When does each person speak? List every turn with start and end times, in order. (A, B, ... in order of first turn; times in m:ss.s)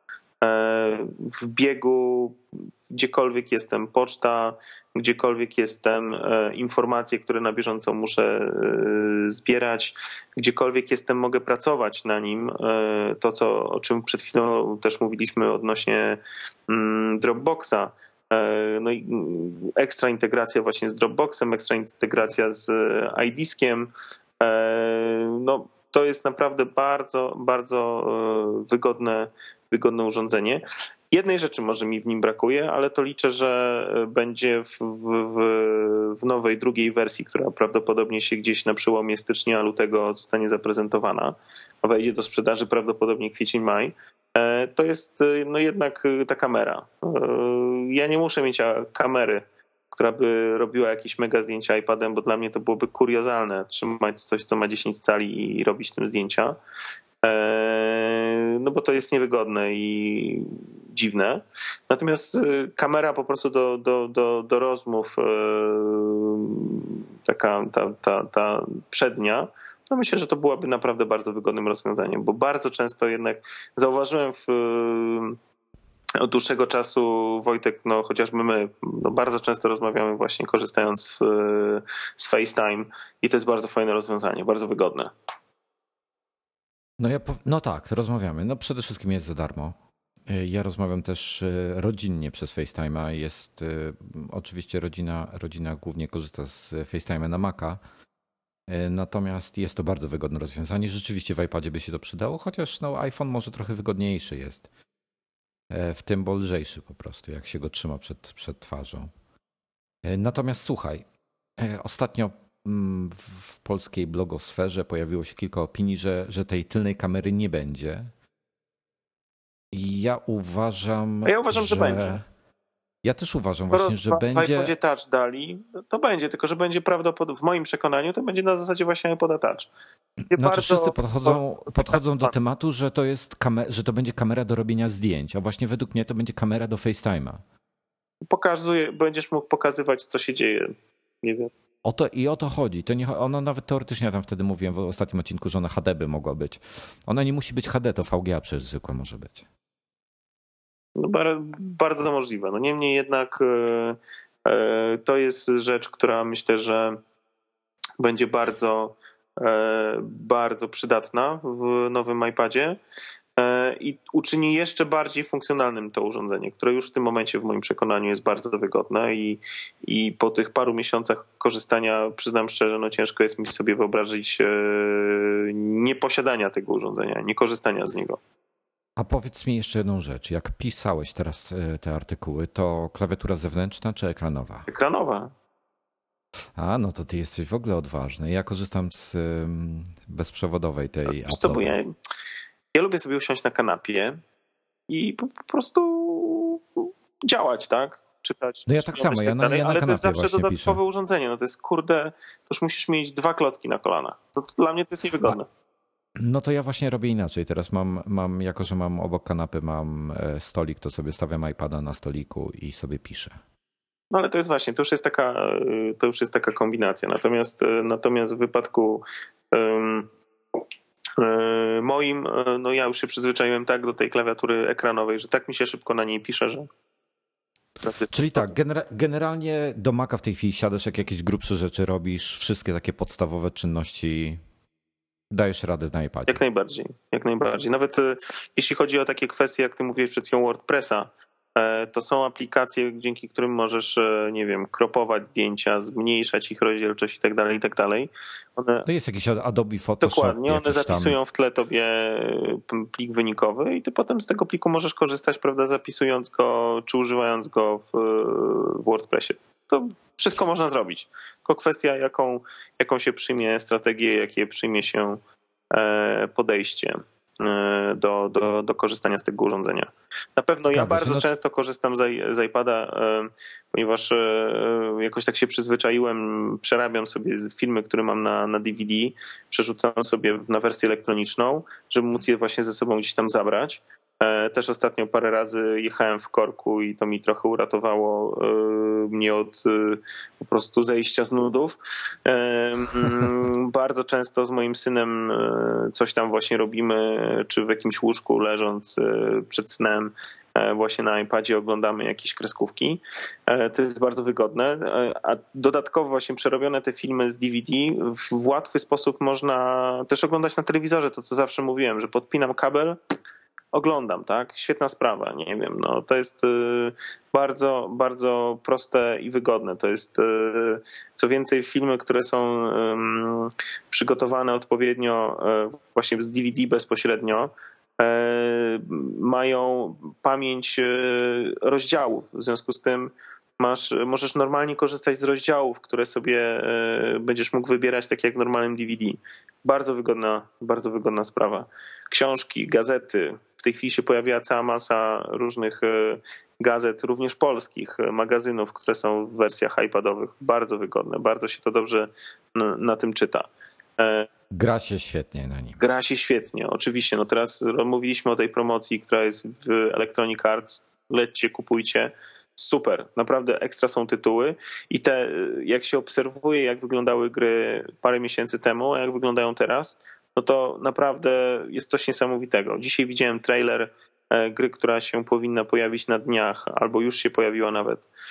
0:00.4-0:56.6 A
0:57.2-1:15.4 A
1:16.2-1:25.1 A
1:27.0-1:29.7 B
1:30.3-1:37.8 B
1:38.7-1:44.7 B
1:45.7-1:49.1 B
1:50.0-1:51.0 B
1:51.6-1:58.1 B
1:59.7-2:02.2 B
2:01.2-2:02.2 A
2:03.0-2:04.7 B
2:03.6-2:09.7 A
2:10.3-2:12.3 A
2:10.3-2:17.4 B
2:18.3-2:21.5 A
2:21.8-2:29.4 B
2:31.0-2:37.0 A
2:38.0-2:42.8 A
2:43.4-2:58.2 A
2:59.0-3:04.7 B
3:04.7-3:05.3 A
3:06.6-3:11.8 B
3:11.0-3:11.9 A
3:12.7-3:14.2 A
3:14.9-3:25.5 A
3:18.7-3:20.8 B
3:26.2-3:33.4 B
3:34.1-3:40.1 A
3:41.2-3:46.7 A
3:47.8-3:48.5 A
3:48.1-3:54.4 B
3:55.3-3:56.4 B
3:56.3-4:08.9 A
4:08.8-4:11.2 B
4:10.0-4:25.2 A
4:25.7-5:13.0 A
4:30.7-4:31.2 B
5:13.7-5:54.3 A
5:54.5-5:55.8 B
5:55.8-6:18.1 A